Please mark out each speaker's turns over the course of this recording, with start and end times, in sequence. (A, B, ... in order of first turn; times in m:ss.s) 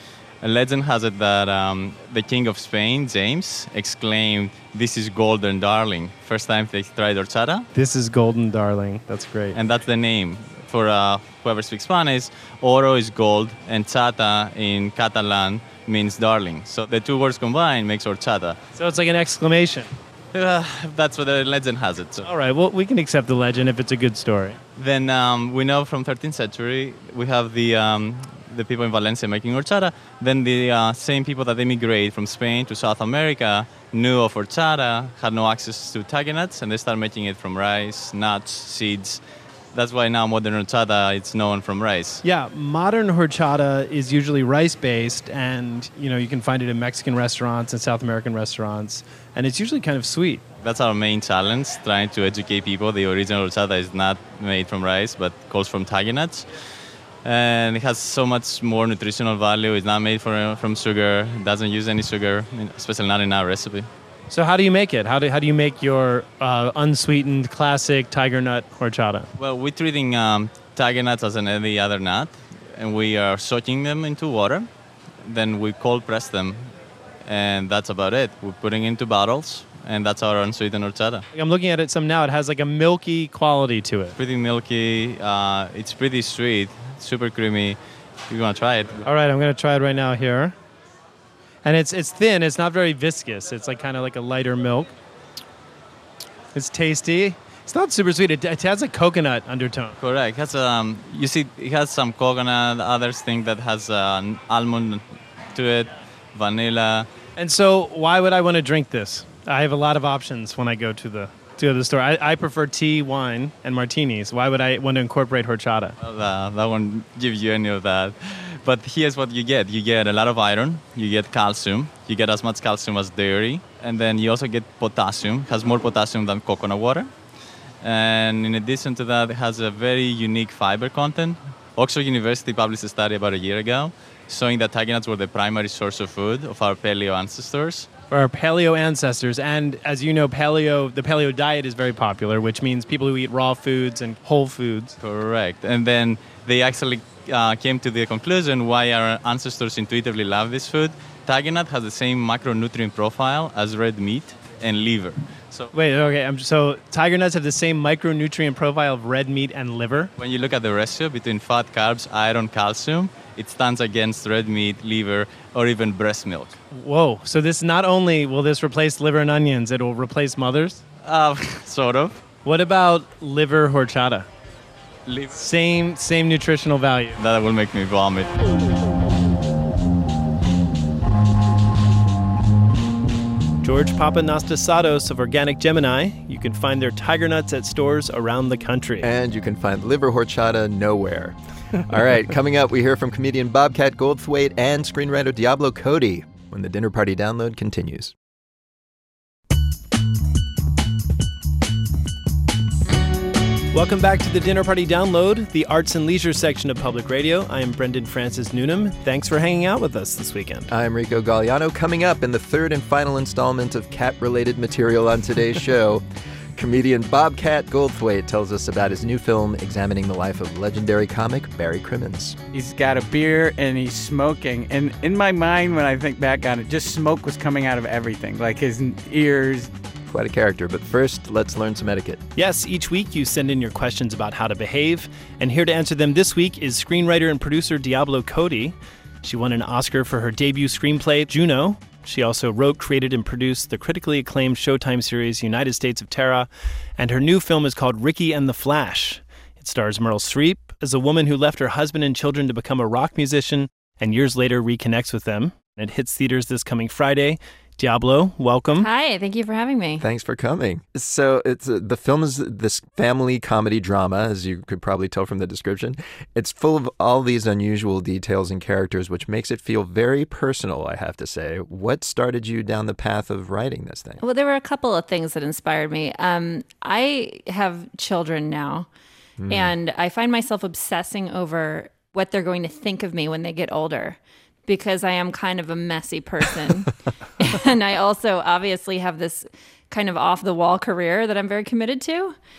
0:00.4-0:07.6 A
0:07.7-0:09.6 B
0:09.5-0:18.6 A
0:18.8-0:19.9 B
0:20.3-0:22.3 A
0:22.2-0:24.6 B
0:24.8-0:39.2 A
0:39.7-0:42.2 A
0:42.2-0:50.4 B
0:50.6-0:56.5 A
0:57.2-1:03.9 A
1:04.3-1:09.3 B
1:09.4-1:14.7 A
1:15.2-1:16.7 A
1:17.2-1:21.2 A
1:21.3-1:24.1 B
1:24.2-1:27.8 A
1:28.3-1:29.0 A
1:29.0-1:30.5 B
1:31.6-1:34.9 B
1:36.5-1:40.0 B
1:40.0-1:47.1 A
1:47.4-1:56.0 B
1:56.0-2:07.1 A
2:07.8-2:17.9 A
2:18.1-2:25.0 B
2:25.0-2:35.7 A
2:35.7-2:40.1 B
2:40.2-2:46.6 A
2:46.7-2:50.8 B
2:51.0-2:52.2 A
2:52.4-2:54.3 B
2:55.1-2:55.4 A
2:55.4-2:57.2 B
2:57.2-2:58.3 A
3:03.6-3:09.1 B
3:09.0-3:18.1 C
3:23.7-3:30.7 B
3:30.7-3:42.4 C
3:42.5-3:49.7 D
3:50.1-3:52.2 C
3:52.4-4:18.9 B
4:18.8-4:20.0 E
4:20.0-4:34.2 C
4:34.2-4:38.9 E
4:39.4-4:39.7 C
4:39.5-4:52.4 E